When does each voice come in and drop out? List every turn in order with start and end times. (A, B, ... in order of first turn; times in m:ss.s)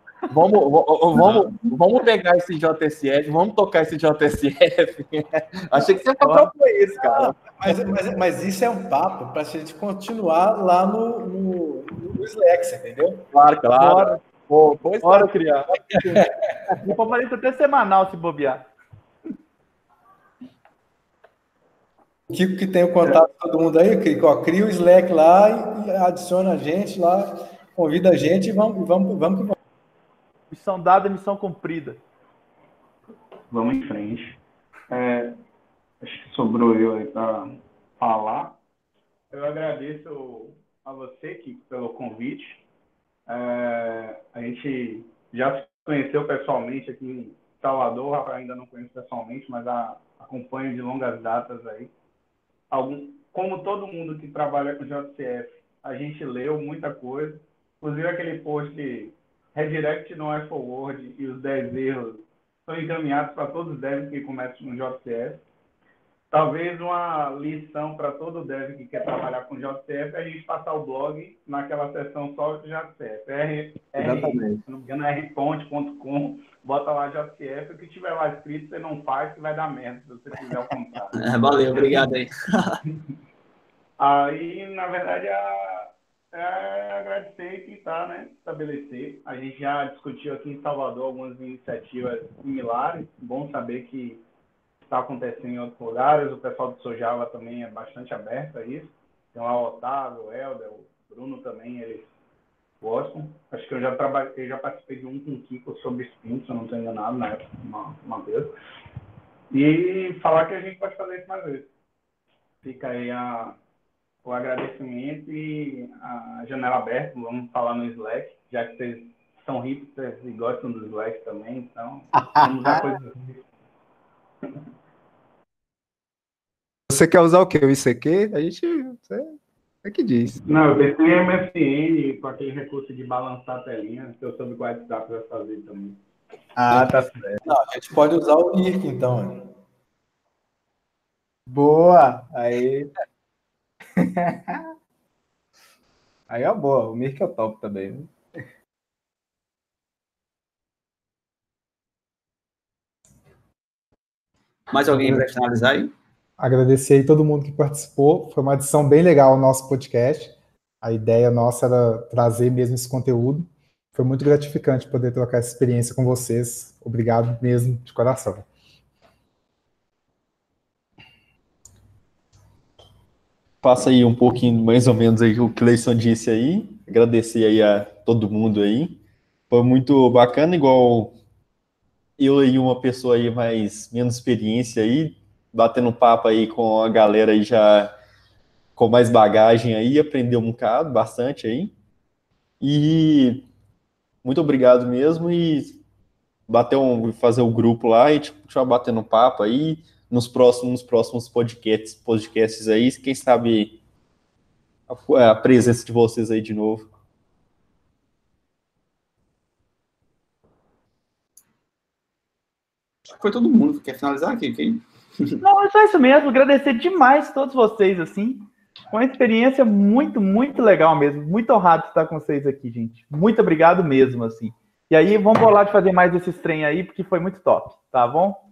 0:00.3-0:07.8 A
0:06.2-0:06.5 B
0:07.0-0:13.3 C
0:13.3-0:15.7 A
0:13.8-0:14.1 B
0:15.0-0:15.3 B
0:16.0-0:16.3 C
0:16.8-0:18.7 B
0:22.3-0:29.6 C
0:30.5-0:32.0 B
0:33.5-0:34.4 D
0:34.9-0:35.3 D
0:36.0-0:38.6 D
0:39.3-0:42.6 D
0:43.3-0:51.9 D
0:52.7-1:05.4 D
1:06.3-1:21.3 D
1:14.0-1:14.4 E
1:21.1-1:22.8 F
1:24.0-1:34.2 D
1:34.8-1:42.1 D
1:42.8-1:48.5 D
1:49.5-1:51.7 D
1:52.6-1:53.6 D
1:54.2-2:03.5 D
2:02.2-2:02.9 E
2:06.9-2:10.4 E
2:10.5-2:16.0 D
2:16.6-2:17.4 E
2:17.4-2:19.5 C
2:21.5-2:22.9 E
2:24.0-2:24.7 E
2:26.3-2:28.1 E
2:34.7-2:35.9 F
2:36.4-2:48.5 G
2:53.6-2:59.0 H
2:59.5-3:01.2 H
3:02.2-3:07.9 H
3:08.8-3:11.8 H
3:12.6-3:13.5 H
3:14.2-3:15.8 H
3:16.5-3:23.8 H
3:24.9-3:26.9 H
3:33.1-3:35.4 F
3:35.4-3:48.4 B